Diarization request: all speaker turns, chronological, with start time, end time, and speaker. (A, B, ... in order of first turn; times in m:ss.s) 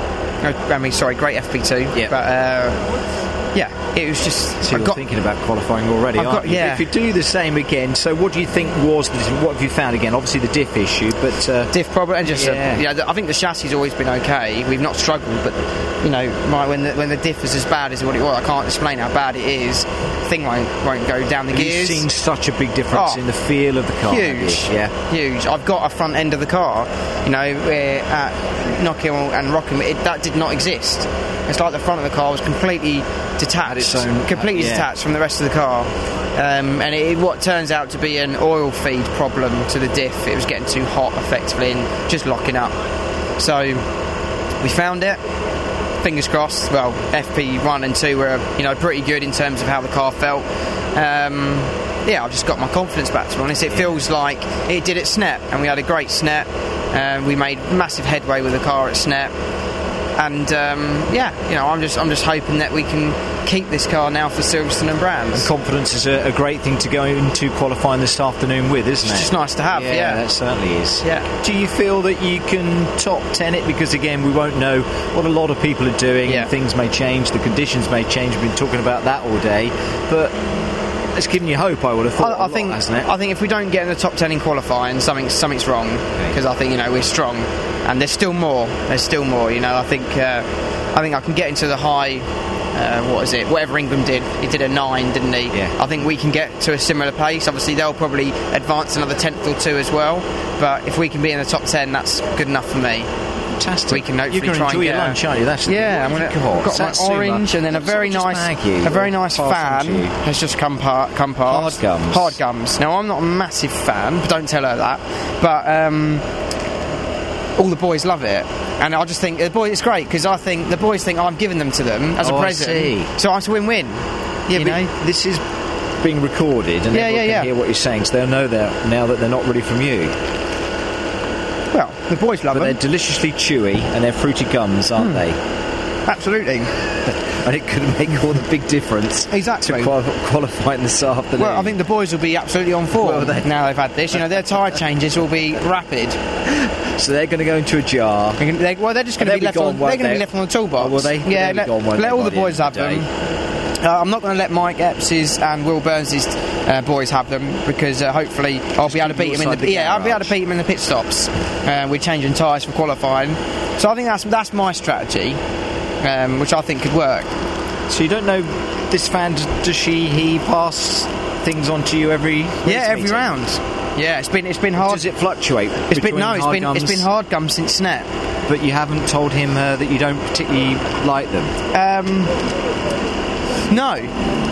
0:00.4-0:02.8 A
0:03.5-0:05.0 A
0:04.6-0:11.7 B
0:06.2-0:06.9 A
0:11.7-0:22.1 A
0:12.3-0:12.8 B
0:21.5-0:24.9 B
0:22.9-0:23.2 A
0:24.0-0:42.8 A
0:33.6-0:34.9 B
0:43.4-0:43.8 A
0:44.6-0:45.2 A
0:46.0-0:59.3 A
0:53.7-0:54.0 B
1:00.2-1:05.5 A
1:05.3-1:20.3 B
1:09.0-1:10.2 A
1:16.2-1:16.5 A
1:21.1-1:23.1 B
1:22.2-1:43.1 A
1:43.6-1:50.1 B
1:43.9-1:56.2 A
1:51.5-1:52.4 B
1:57.6-2:04.9 A
2:02.2-2:03.1 B
2:04.5-2:05.4 B
2:06.0-2:10.1 B
2:06.9-2:07.5 A
2:11.7-2:12.8 A
2:12.5-2:15.4 B
2:15.0-2:15.2 A
2:16.0-2:16.7 A
2:17.0-2:21.8 B
2:19.3-2:19.9 A
2:21.4-2:26.2 A
2:22.9-2:23.5 B
2:26.4-2:28.4 B
2:28.4-2:33.1 A
2:29.2-2:33.1 B
2:33.8-2:45.4 A
2:38.8-2:40.3 B
2:46.0-2:47.3 A
2:47.9-2:53.3 B
2:52.6-2:55.0 A
2:54.8-2:57.1 B
2:55.9-2:58.1 A
2:58.5-3:01.5 B
3:01.7-3:02.4 A
3:03.7-3:04.1 A